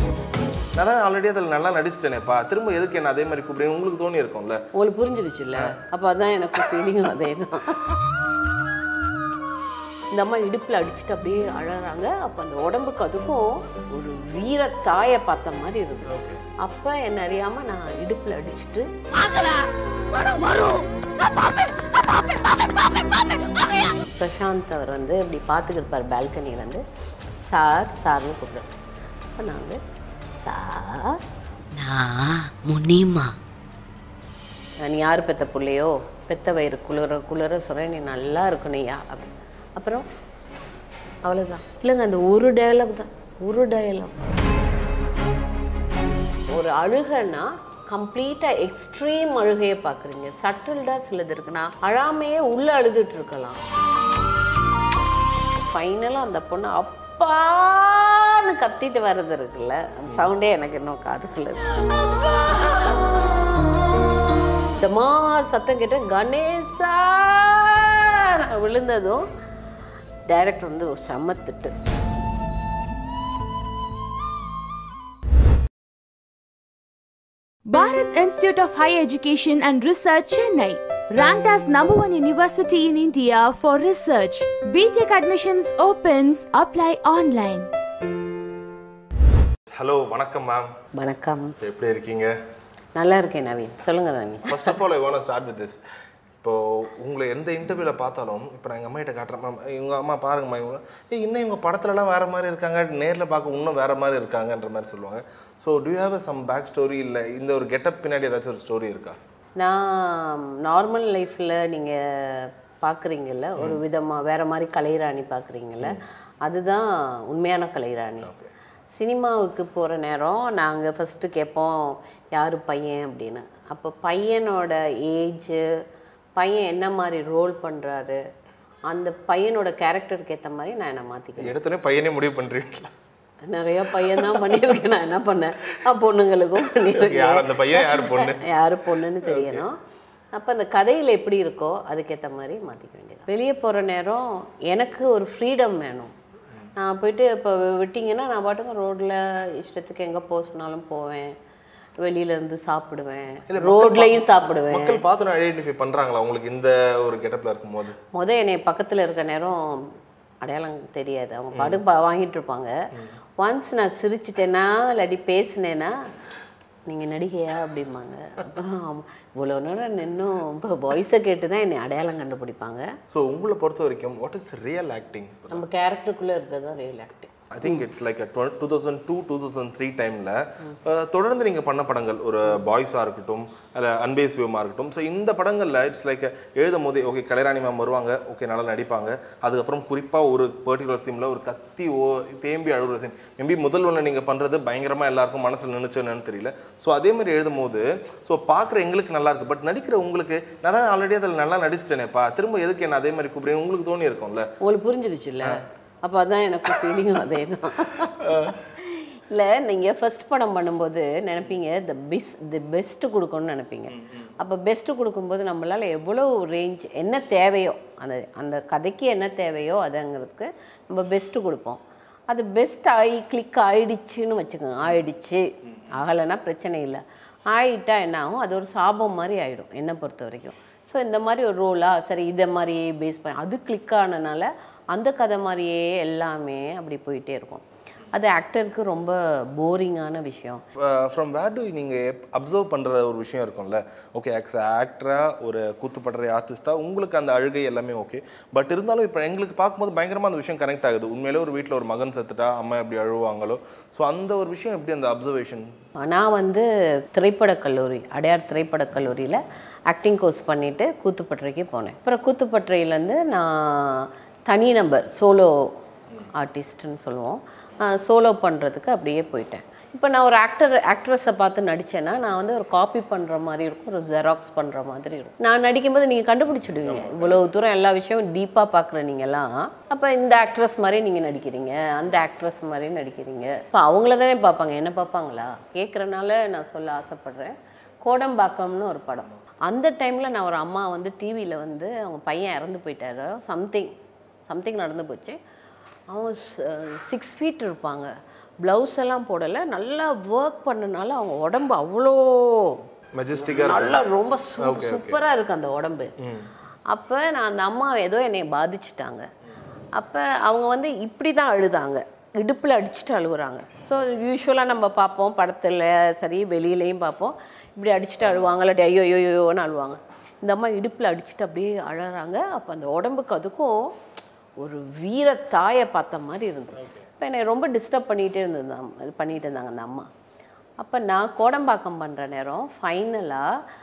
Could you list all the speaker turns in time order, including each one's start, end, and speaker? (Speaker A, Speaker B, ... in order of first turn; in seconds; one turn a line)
Speaker A: 0.8-4.6
Speaker B: 4.7-7.8
Speaker B: 10.1-18.9
Speaker A: 16.1-16.4
Speaker C: 19.1-24.0
Speaker B: 24.0-26.8
Speaker B: 27.5-28.7
Speaker B: 29.4-29.8
Speaker B: 30.4-31.2
Speaker C: 31.8-33.3
Speaker B: 34.8-40.0
Speaker B: 41.2-44.2
Speaker B: 46.5-53.6
Speaker B: 55.5-61.6
Speaker B: 64.8-69.3
Speaker B: 70.3-71.7
Speaker D: 77.7-87.7
Speaker A: 89.7-90.7
Speaker B: 91.0-91.5
Speaker A: 91.6-92.3
Speaker B: 93.0-94.8
Speaker A: 94.5-95.8
Speaker A: 96.4-109.2
Speaker B: 109.6-118.3
Speaker A: 118.2-118.5
Speaker B: 119.0-125.7
Speaker B: 126.4-128.2
Speaker B: 128.9-131.5
Speaker A: 131.4-132.9
Speaker B: 133.4-139.8
Speaker A: 134.1-134.4
Speaker A: 136.6-138.5
Speaker A: 139.2-139.6
Speaker B: 140.3-146.1
Speaker B: 146.8-151.3
Speaker B: 152.0-155.0
Speaker A: 153.5-158.0
Speaker B: 158.1-159.8
Speaker B: 160.4-162.7
Speaker A: 161.5-161.8
Speaker B: 163.4-165.9
Speaker B: 166.9-172.9
Speaker A: 173.1-175.6
Speaker B: 175.5-177.8
Speaker A: 177.5-204.5
Speaker B: 204.6-240.6
Speaker A: 208.2-208.6
Speaker A: 213.9-214.3
Speaker A: 240.8-255.7
Speaker B: 256.0-265.6
Speaker B: 266.4-293.9
Speaker A: 276.8-277.5
Speaker B: 294.5-295.4
Speaker B: 296.1-302.8
Speaker A: 303.1-304.0
Speaker B: 303.4-306.1
Speaker A: 304.6-305.2
Speaker A: 306.2-306.5
Speaker B: 306.9-309.3
Speaker B: 309.9-323.9
Speaker A: 318.2-318.5
Speaker B: 324.6-330.1
Speaker A: 326.8-327.1
Speaker B: 330.8-333.5